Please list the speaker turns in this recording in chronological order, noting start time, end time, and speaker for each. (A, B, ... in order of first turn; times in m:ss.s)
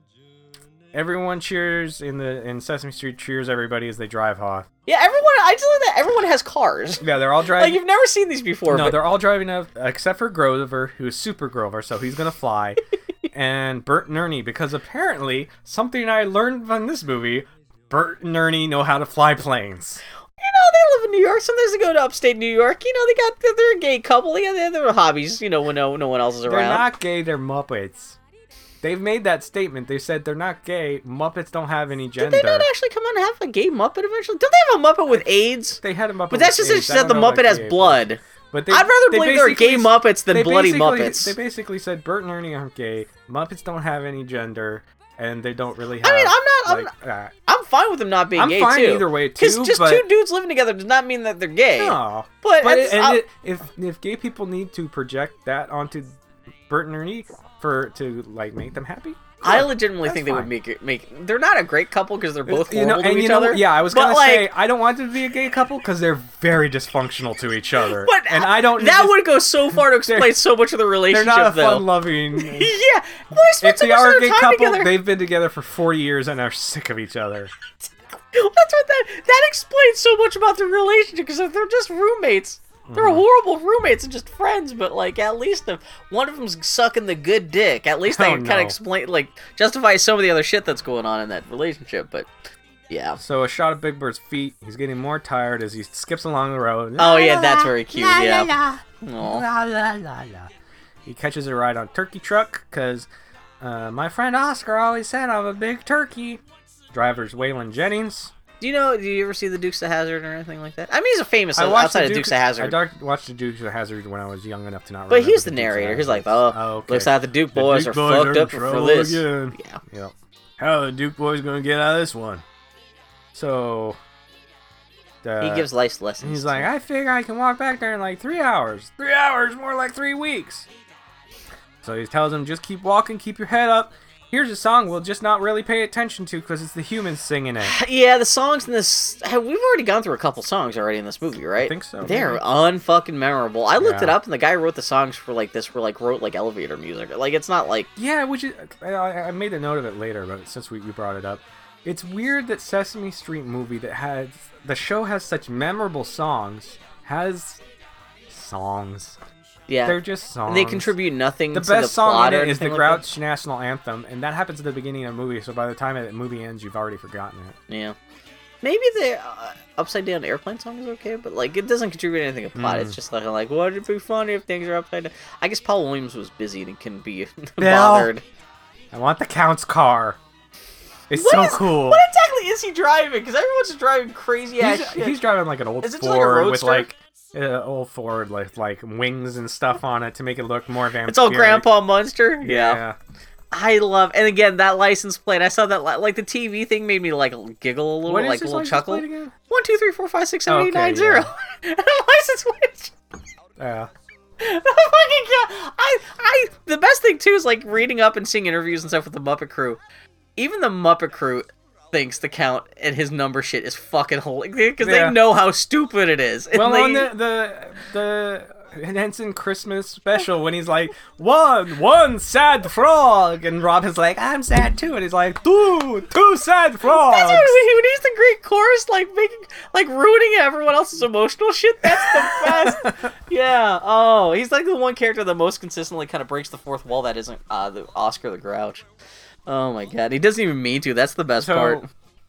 0:00.9-0:04.7 A
0:04.9-0:07.0 B
0:07.0-0:07.8 A
0:07.5-0:09.0 B
0:08.7-0:20.0 A
0:20.4-0:26.8 B
0:26.4-0:28.2 A
0:28.8-0:32.7 A
0:32.2-0:41.3 B
0:35.1-0:47.3 A
0:46.0-0:46.9 B
0:47.4-0:53.2 B
0:48.4-0:50.0 A
0:51.8-0:56.2 A
0:56.7-1:00.5 A
0:59.4-1:04.5 B
1:02.4-1:10.4 A
1:07.8-1:14.9 B
1:11.1-1:12.7 A
1:13.6-1:17.5 A
1:18.3-1:32.3 B
1:22.9-1:23.2 A
1:28.0-1:28.8 A
1:32.9-1:33.2 B
1:33.2-1:40.5 A
1:37.0-1:39.4 B
1:41.0-1:43.1 A
1:43.6-1:48.3 A
1:48.6-1:52.8 B
1:51.5-2:02.4 A
1:55.1-1:59.8 B
2:03.3-2:04.0 A
2:05.2-2:05.7 A
2:05.4-2:06.7 B
2:06.2-2:10.7 A
2:11.8-2:17.7 A
2:17.6-2:27.9 B
2:21.6-2:22.4 A
2:23.8-2:24.1 A
2:28.0-2:37.6 A
2:38.3-2:39.2 A
2:39.7-2:43.0 B
2:39.8-2:40.9 A
2:41.5-2:47.6 A
2:47.7-2:48.0 B
2:48.6-2:58.2 B
2:52.5-2:53.0 A
2:57.6-2:58.1 A
2:58.9-3:00.2 A
3:01.1-3:02.0 A
3:01.1-3:05.2 B
3:04.6-3:11.6 A
3:05.8-3:06.8 B
3:11.1-3:12.8 B
3:12.4-3:13.0 A
3:13.5-3:22.9 B
3:18.0-3:19.3 A
3:20.5-3:21.3 A
3:23.6-3:23.9 A
3:24.4-3:29.8 B
3:30.4-3:37.1 B
3:34.8-3:35.2 A
3:36.5-3:47.6 A
3:46.9-3:58.8 B
3:51.8-3:53.1 A
3:59.4-4:01.8 B
4:01.4-4:01.8 A